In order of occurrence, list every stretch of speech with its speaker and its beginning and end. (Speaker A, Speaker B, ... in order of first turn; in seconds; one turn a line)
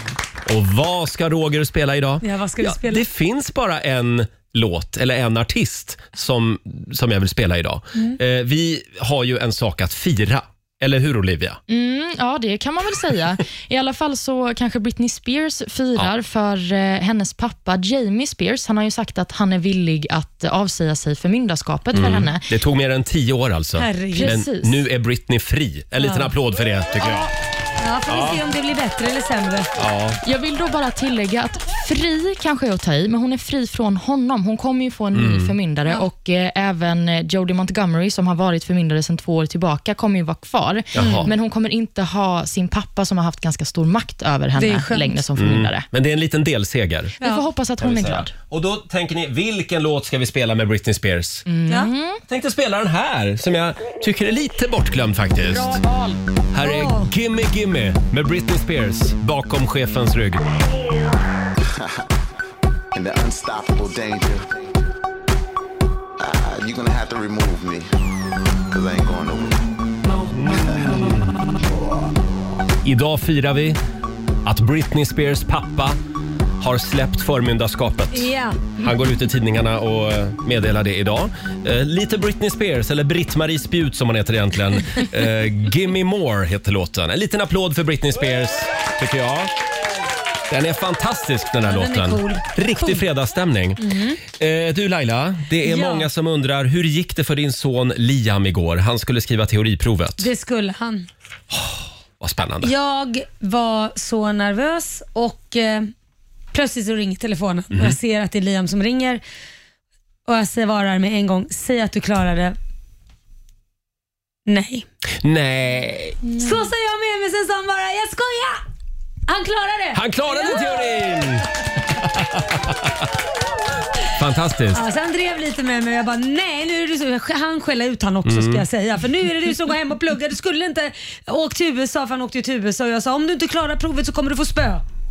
Speaker A: 0.5-11.6
Speaker B: 2.2-3.0
Speaker C: 11.7-22.5
Speaker A: 21.9-27.3
Speaker B: 23.8-24.4
Speaker C: 24.1-24.8
Speaker B: 26.0-26.3
Speaker B: 27.8-29.7
Speaker A: 28.1-28.4
Speaker A: 29.8-30.2
Speaker C: 30.2-45.9
Speaker A: 35.1-35.5
Speaker A: 41.0-41.3
Speaker B: 41.0-41.3
Speaker B: 44.6-45.2
Speaker A: 45.4-47.2
Speaker C: 47.2-48.3
Speaker A: 47.8-51.4
Speaker C: 51.5-52.2
Speaker A: 52.3-55.8
Speaker C: 55.4-56.2
Speaker A: 56.5-60.4
Speaker B: 56.6-57.1
Speaker D: 61.8-62.0
Speaker D: 62.9-64.5
Speaker D: 66.2-67.9
Speaker D: 68.7-69.7
Speaker A: 70.3-71.4
Speaker A: 72.8-73.8
Speaker A: 74.5-76.0
Speaker A: 76.6-89.5
Speaker B: 78.1-78.6
Speaker A: 90.5-100.3
Speaker B: 91.6-93.0
Speaker B: 93.8-94.2
Speaker B: 95.6-96.1
Speaker B: 100.2-101.1
Speaker A: 101.5-102.7
Speaker B: 102.6-105.9
Speaker B: 106.5-109.2
Speaker A: 107.7-108.0
Speaker B: 110.3-112.6
Speaker B: 114.5-114.9
Speaker A: 115.2-116.3
Speaker B: 116.3-118.6
Speaker B: 119.3-120.9
Speaker A: 119.9-122.9
Speaker A: 124.2-124.9
Speaker B: 124.7-134.8
Speaker A: 128.2-128.7